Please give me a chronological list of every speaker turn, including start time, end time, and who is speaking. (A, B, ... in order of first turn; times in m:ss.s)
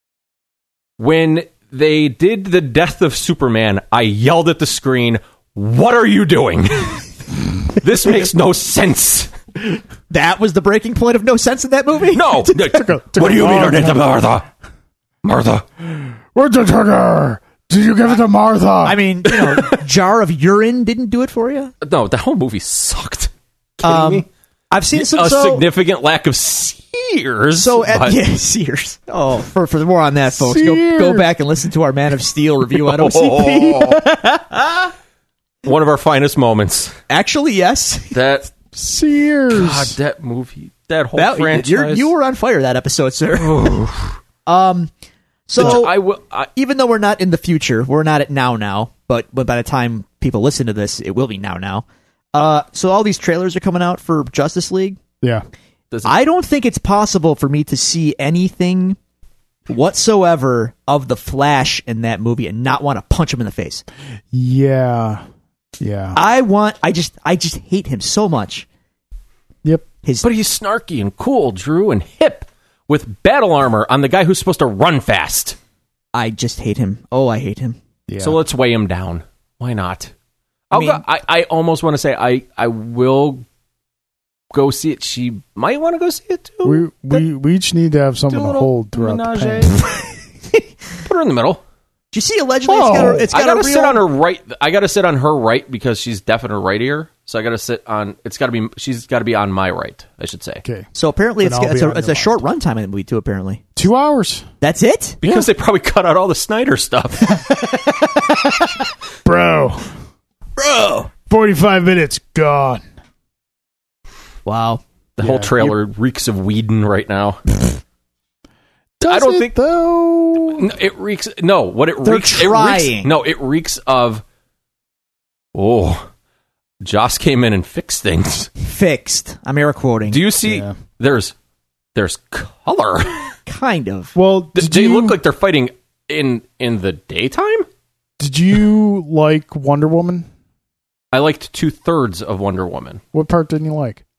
0:01.0-0:07.1 A
0:07.7-0:09.3 A
0:10.1-0:12.6 B
0:12.1-0:14.5 A
0:12.5-0:14.2 C
0:15.2-0:15.6 A
0:16.0-0:19.0 C
0:18.8-0:21.7 B
0:19.3-0:19.8 A
0:21.8-0:24.3 A
0:23.8-0:25.7 B
0:24.9-0:28.2 A
0:27.6-0:34.9 B
0:30.4-0:31.3 C
0:32.7-0:34.0 A
0:35.6-0:36.9 A
0:37.1-0:38.2 B
0:38.1-0:38.5 A
0:38.7-0:40.0 C
0:39.5-0:42.1 A
0:41.2-0:43.8 B
0:43.3-0:44.2 A
0:44.5-0:44.9 B
0:45.5-0:46.0 B
0:45.6-0:46.5 A
0:46.6-0:55.0 B
0:56.0-0:59.0 B
0:59.7-1:03.8 B
1:04.3-1:05.2 C
1:05.8-1:06.2 C
1:06.2-1:08.7 B
1:10.2-1:15.6 A
1:16.1-1:17.8 B
1:18.1-1:18.4 C
1:18.2-1:20.1 A
1:20.7-1:23.4 A
1:20.7-1:21.0 B
1:24.5-1:27.2 A
1:26.6-1:29.8 C
1:28.3-1:29.8 A
1:31.0-1:31.6 A
1:32.1-1:34.0 B
1:32.7-1:33.3 C
1:33.3-1:40.6 A
1:41.0-1:43.7 B
1:41.4-1:42.4 C
1:43.8-1:44.5 C
1:44.6-1:45.4 B
1:45.2-1:47.4 A
1:47.3-1:48.7 B
1:49.2-1:49.9 C
1:50.6-1:51.1 B
1:51.3-1:52.8 C
1:54.5-1:54.8 B
1:55.2-1:57.6 A
1:55.2-1:55.7 C
1:59.0-2:00.7 C
1:59.1-1:59.5 A
2:00.6-2:04.2 A
2:02.0-2:03.1 B
2:05.5-2:06.1 A
2:06.8-2:08.5 A
2:08.6-2:10.2 B
2:10.1-2:11.3 A
2:10.4-2:10.8 C
2:12.0-2:13.4 A
2:13.5-2:14.2 B
2:14.2-2:15.2 C
2:14.6-2:17.7 A
2:18.2-2:20.3 C
2:21.1-2:23.0 A
2:23.1-2:24.0 C